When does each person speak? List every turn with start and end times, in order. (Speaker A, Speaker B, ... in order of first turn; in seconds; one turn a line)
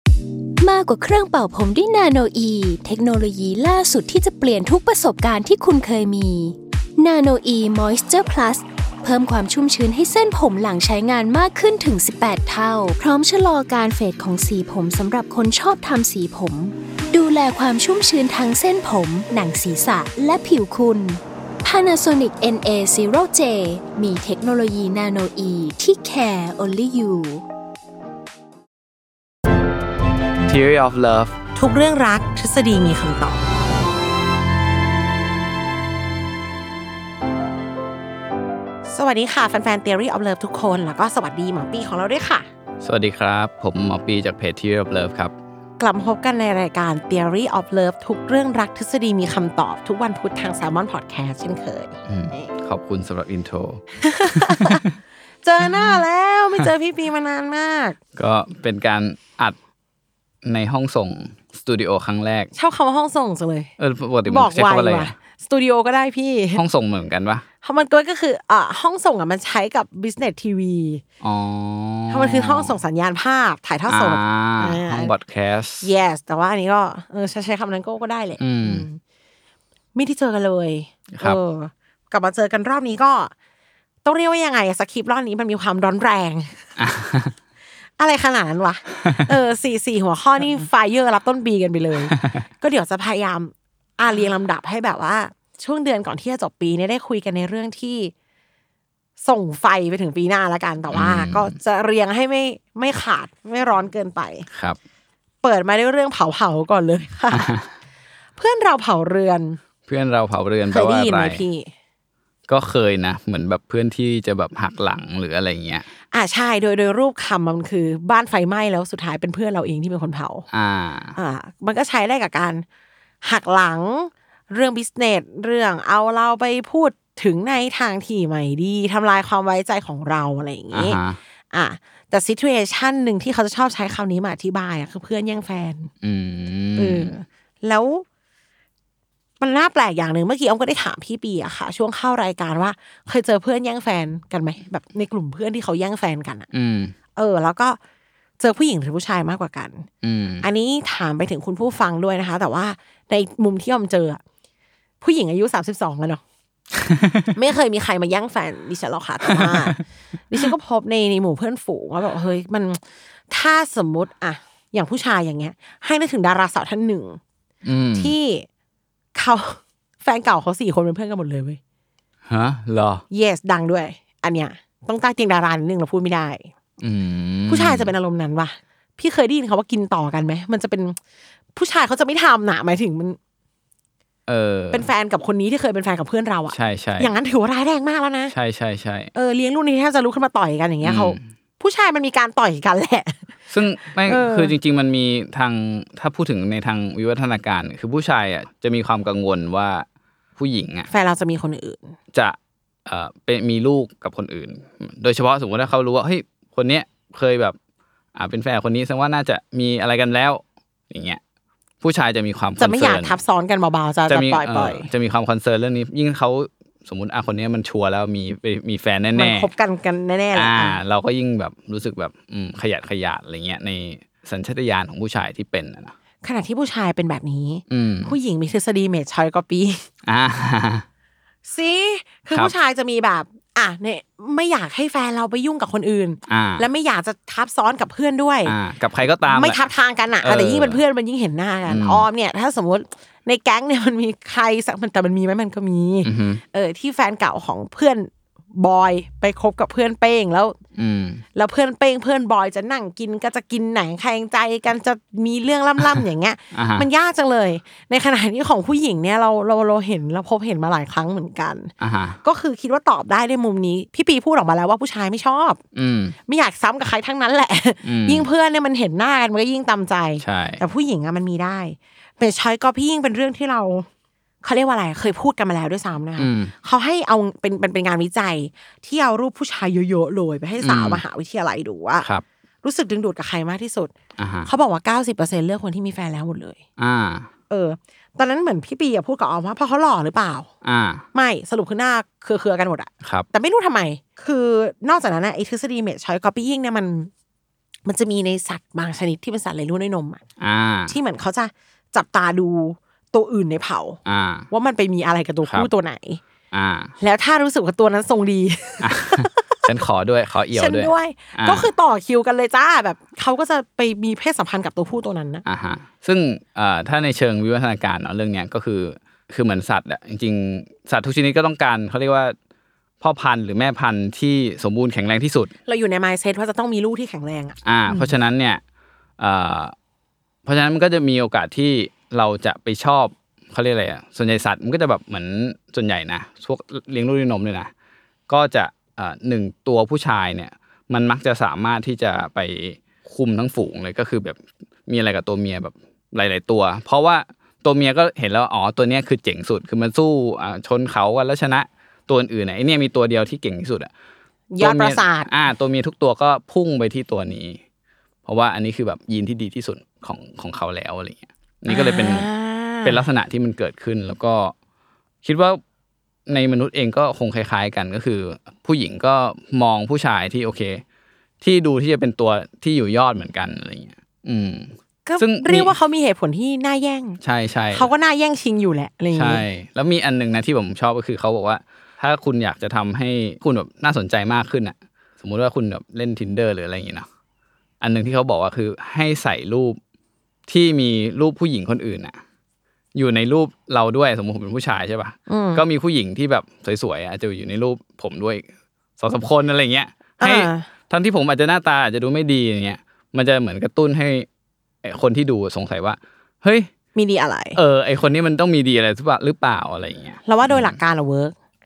Speaker A: 0.6-27.4
Speaker B: 30.4-31.3
Speaker C: 31.6-33.4
Speaker C: 38.9-42.5
Speaker B: 42.8-45.3
Speaker C: 45.8-52.5
Speaker B: 52.1-54.8
Speaker C: 54.0-54.8
Speaker C: 55.4-58.0
Speaker B: 58.1-59.5
Speaker B: 60.4-62.5
Speaker C: 62.5-63.7
Speaker B: 63.8-65.1
Speaker C: 64.2-66.6
Speaker B: 66.5-67.4
Speaker C: 67.6-71.0
Speaker B: 71.2-72.8
Speaker C: 72.1-75.2
Speaker B: 73.9-75.9
Speaker C: 75.8-79.0
Speaker B: 78.4-78.9
Speaker C: 79.9-83.3
Speaker C: 84.0-86.6
Speaker B: 86.8-87.3
Speaker C: 88.0-98.1
Speaker B: 92.0-92.4
Speaker C: 99.2-104.5
Speaker B: 100.9-101.5
Speaker C: 105.4-107.5
Speaker B: 107.3-107.7
Speaker C: 108.4-109.6
Speaker B: 109.9-111.4
Speaker C: 110.7-111.7
Speaker B: 112.5-115.9
Speaker C: 116.1-120.4
Speaker B: 120.5-121.2
Speaker C: 121.2-122.6
Speaker C: 123.2-131.0
Speaker B: 130.7-131.2
Speaker C: 131.5-135.9
Speaker B: 136.0-137.1
Speaker C: 136.8-138.0
Speaker C: 139.4-146.5
Speaker B: 146.5-146.9
Speaker C: 147.1-147.8
Speaker C: 148.4-149.9
Speaker B: 150.0-150.5
Speaker C: 150.4-154.2
Speaker C: 155.0-156.2
Speaker C: 157.3-159.8
Speaker B: 159.4-159.8
Speaker C: 160.3-167.2
Speaker B: 167.6-168.1
Speaker C: 167.9-168.4
Speaker C: 169.1-171.6
Speaker B: 172.3-173.0
Speaker C: 173.1-176.5
Speaker B: 176.8-177.9
Speaker C: 177.5-181.0
Speaker C: 181.5-183.2
Speaker B: 184.3-184.9
Speaker C: 184.7-188.3
Speaker B: 186.5-187.1
Speaker B: 188.3-189.1
Speaker C: 189.1-193.2
Speaker B: 190.8-191.2
Speaker B: 193.5-199.8
Speaker C: 194.0-194.5
Speaker B: 200.4-200.9
Speaker C: 200.9-201.9
Speaker B: 202.1-207.6
Speaker B: 208.2-211.2
Speaker B: 211.8-213.2
Speaker C: 212.6-214.9
Speaker B: 214.1-219.5
Speaker C: 219.1-220.8
Speaker B: 220.3-225.9
Speaker C: 226.2-229.8
Speaker B: 227.7-228.2
Speaker B: 230.0-230.8
Speaker C: 231.4-238.5
Speaker B: 236.3-236.7
Speaker B: 238.4-239.6
Speaker C: 239.3-250.6
Speaker B: 240.2-240.8
Speaker B: 241.7-242.1
Speaker B: 246.0-246.4
Speaker B: 250.7-251.2
Speaker C: 251.3-261.7
Speaker B: 256.5-256.9
Speaker B: 261.8-262.2
Speaker C: 262.2-265.6
Speaker B: 265.7-266.1
Speaker C: 266.3-273.9
Speaker B: 267.8-268.3
Speaker B: 270.2-270.6
Speaker C: 274.4-282.1
Speaker B: 276.2-276.5
Speaker B: 280.6-281.0
Speaker C: 282.6-283.9
Speaker B: 284.2-284.5
Speaker C: 284.4-286.6
Speaker B: 286.8-287.3
Speaker C: 287.5-290.5
Speaker B: 290.6-291.0
Speaker C: 291.1-297.1
Speaker C: 297.9-300.2
Speaker B: 300.4-300.9
Speaker C: 300.9-304.0
Speaker B: 304.1-304.5
Speaker C: 304.5-306.2
Speaker B: 305.4-305.7
Speaker B: 306.5-306.9
Speaker C: 307.0-309.2
Speaker B: 308.8-311.7
Speaker C: 310.5-315.4
Speaker B: 315.4-322.3
Speaker B: 323.0-325.5
Speaker C: 325.6-328.1
Speaker B: 327.6-328.6
Speaker B: 329.2-329.7
Speaker B: 330.4-337.7
Speaker B: 338.3-353.9
Speaker C: 354.5-355.3
Speaker B: 354.6-357.6
Speaker B: 358.2-362.3
Speaker C: 361.7-363.1
Speaker B: 362.8-364.5
Speaker B: 365.2-365.6
Speaker B: 366.3-370.8
Speaker B: 371.4-375.7
Speaker C: 375.0-377.2
Speaker B: 377.2-377.9
Speaker C: 377.7-379.4
Speaker B: 379.1-387.1
Speaker B: 387.8-389.8
Speaker B: 390.5-392.2
Speaker B: 392.9-398.4
Speaker C: 395.3-395.6
Speaker B: 399.0-404.3
Speaker C: 400.2-400.6
Speaker B: 404.8-406.7
Speaker C: 406.9-407.6
Speaker B: 407.5-410.8
Speaker C: 410.2-411.3